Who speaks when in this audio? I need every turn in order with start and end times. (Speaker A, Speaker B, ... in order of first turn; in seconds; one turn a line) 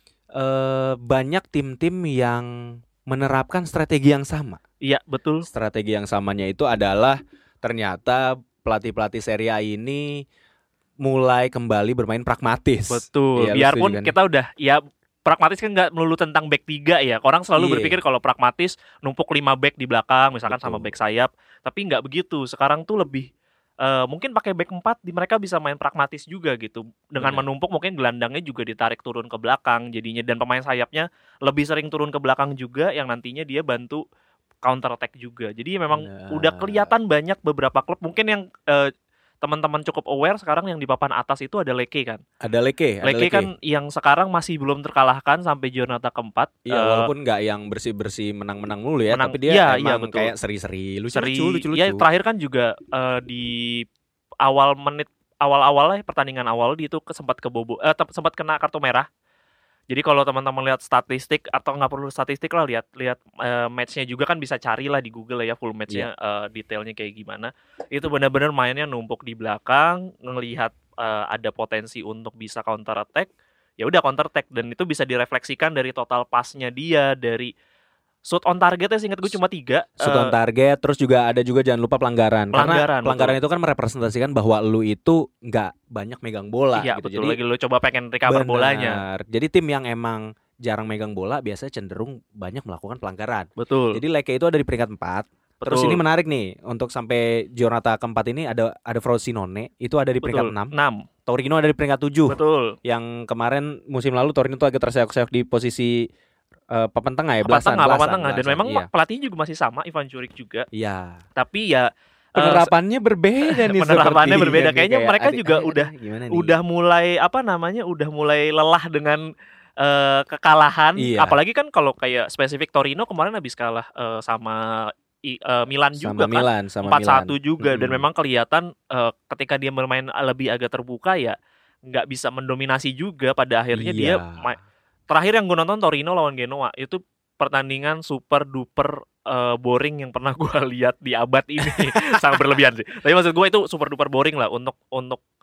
Speaker A: 0.3-4.6
Speaker B: 4.8-5.5
Speaker A: 5.5-10.2
Speaker A: 11.0-14.1
Speaker B: 12.9-23.3
Speaker A: 17.6-18.0
Speaker A: 20.5-20.9
Speaker B: 23.8-34.0
Speaker A: 27.2-27.4
Speaker B: 34.6-38.9
Speaker A: 35.9-36.9
Speaker B: 39.4-42.2
Speaker A: 42.4-43.5
Speaker B: 43.0-47.1
Speaker A: 46.6-52.0
Speaker B: 49.1-50.3
Speaker B: 51.1-53.9
Speaker B: 54.4-59.1
Speaker B: 59.9-77.5
Speaker B: 78.2-80.3
Speaker A: 80.0-87.4
Speaker B: 82.5-83.4
Speaker B: 86.8-89.0
Speaker A: 88.3-100.7
Speaker B: 93.6-94.0
Speaker B: 95.6-96.0
Speaker B: 100.2-101.1
Speaker A: 101.3-106.1
Speaker B: 102.3-102.8
Speaker A: 106.7-108.9
Speaker B: 107.4-110.7
Speaker A: 110.7-111.2
Speaker B: 111.3-112.7
Speaker A: 112.3-116.5
Speaker B: 113.4-119.2
Speaker B: 119.8-131.3
Speaker A: 121.0-121.3
Speaker A: 126.0-128.0
Speaker B: 131.9-134.6
Speaker A: 133.7-134.5
Speaker B: 135.1-145.2
Speaker A: 141.6-142.5